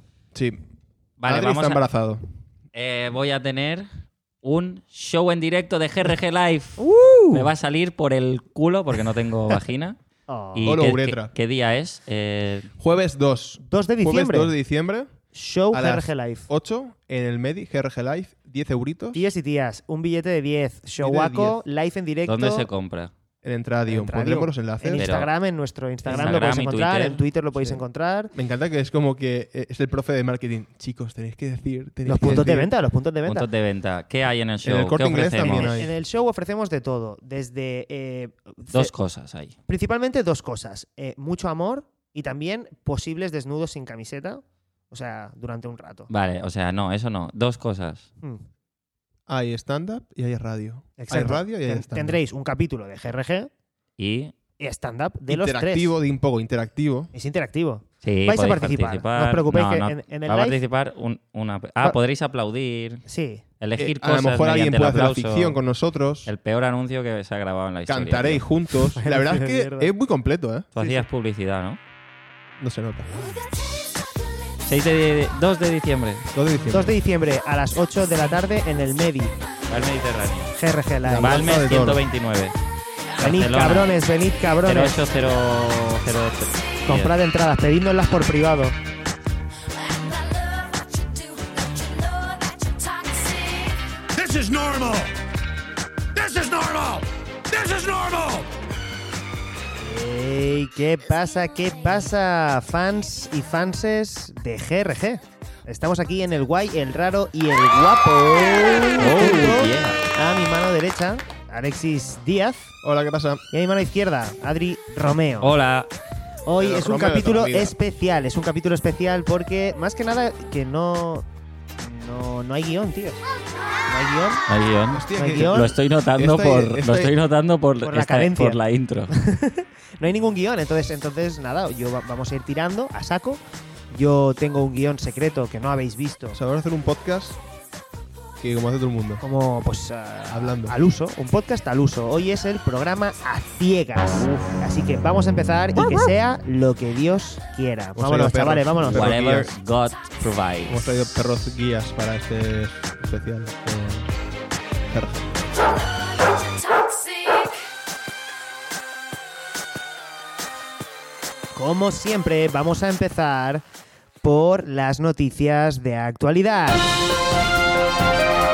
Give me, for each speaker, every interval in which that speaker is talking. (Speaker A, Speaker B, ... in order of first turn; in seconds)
Speaker A: 0.3-0.6, 1.2-2.2, 10.6-11.3, 12.8-15.1, 15.7-19.2, 21.0-21.6, 23.4-25.0, 26.1-26.4, 27.5-27.8, 28.3-32.7, 34.6-35.9, 49.3-52.2, 55.3-57.1, 63.8-66.3, 67.9-71.0, 72.6-73.1, 76.3-76.9, 81.0-82.0, 112.8-113.4, 116.6-117.7, 124.9-127.1, 136.3-137.4, 138.4-139.2, 140.3-140.7, 145.8-146.1, 147.9-149.6, 150.7-154.1, 154.9-155.4
Speaker B: 1.2-1.8, 2.7-3.9, 4.4-6.8, 7.3-10.0, 10.5-12.7, 22.2-23.1, 24.9-25.3, 26.1-27.2, 33.2-35.8, 38.7-39.5, 46.1-48.1, 54.0-54.3, 58.0-63.0, 63.6-65.6, 66.2-68.4, 70.7-71.8, 74.6-76.3, 79.7-80.5, 81.2-82.5, 83.2-83.9, 84.7-87.1, 109.0-110.0, 115.4-115.9, 124.5-129.1, 148.9-150.9
Speaker C: 6.8-7.5, 10.3-10.8, 13.6-14.5, 15.3-16.5, 19.1-22.6, 23.9-28.3, 32.0-33.5, 35.5-38.9, 39.7-46.1, 51.0-53.5, 54.6-55.9, 57.1-60.6, 63.0-63.4, 69.0-69.9, 76.7-79.3, 80.5-81.6, 83.2-84.9, 86.8-88.8, 99.8-112.7, 113.5-115.5, 116.5-121.2, 121.8-123.2, 123.9-124.4, 125.2-125.7, 127.8-128.6, 129.1-133.4, 133.9-136.4, 139.2-149.1, 161.5-163.6, 164.2-166.9
Speaker D: 94.1-95.1, 96.1-98.5